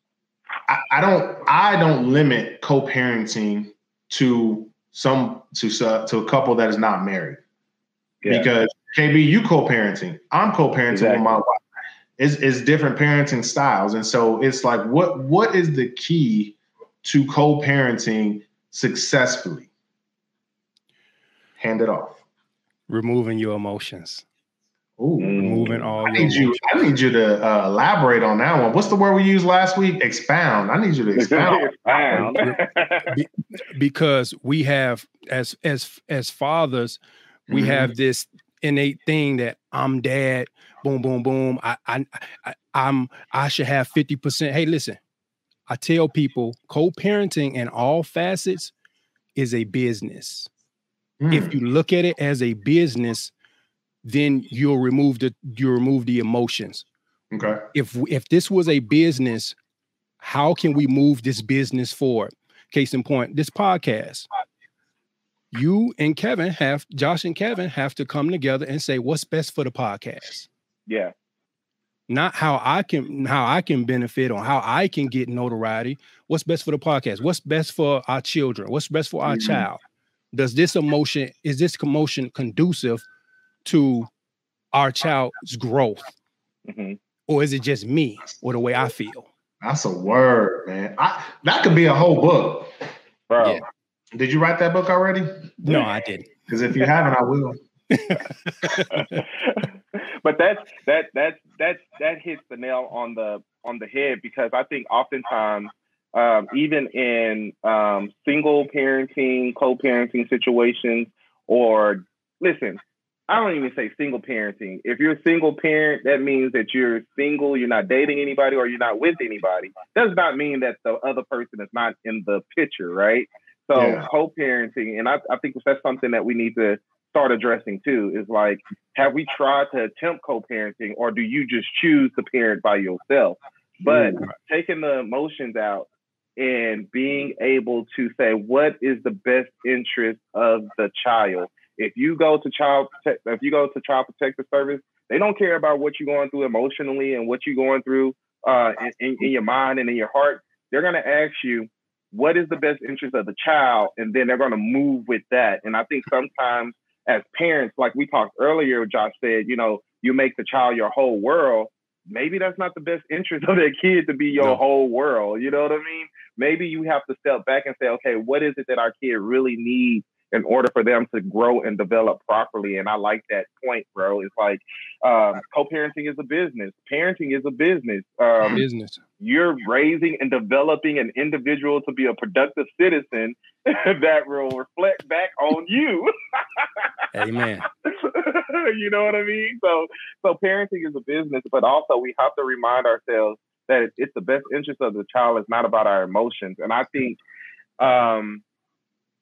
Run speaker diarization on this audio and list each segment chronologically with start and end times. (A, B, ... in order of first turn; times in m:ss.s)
0:00.7-0:07.4 A
0:08.2-0:08.5 B
0:08.3-0:11.6 A
0:10.9-0:11.4 B
0:12.2-0:19.7 A
0:21.6-0:22.2 A
0:22.9-0:24.2 C
0:25.0-0:32.4 A
0:25.2-0:25.8 B
0:25.4-0:26.8 C
0:31.2-0:33.1 B
0:32.1-0:45.0 C
0:37.5-0:37.9 A
0:45.7-0:48.7 C
0:49.4-0:50.5 C
0:51.2-0:51.6 A
0:51.3-0:53.3 C
0:54.0-0:56.9 C
0:57.3-0:57.6 A
0:57.7-0:59.6 C
1:00.2-1:04.3 C
1:05.5-1:10.5 C
1:10.9-1:11.1 B
1:12.1-1:19.8 C
1:19.2-1:19.7 A
1:20.3-1:23.0 C
1:23.6-1:24.1 C
1:24.7-1:26.2 C
1:26.7-1:27.0 B
1:27.3-1:29.3 C
1:29.6-1:32.7 A
1:33.3-1:33.6 B
1:33.4-1:33.6 C
1:34.2-1:35.5 A
1:35.6-1:36.3 C
1:36.5-1:37.6 A
1:37.9-1:39.2 C
1:39.2-2:15.9 B
2:03.8-2:04.1 A
2:13.8-2:14.2 A
2:16.4-2:58.6 B
2:58.5-2:59.0 C
2:59.2-3:06.9 B
3:07.1-3:07.7 C
3:07.8-3:17.2 B
3:17.8-3:18.4 B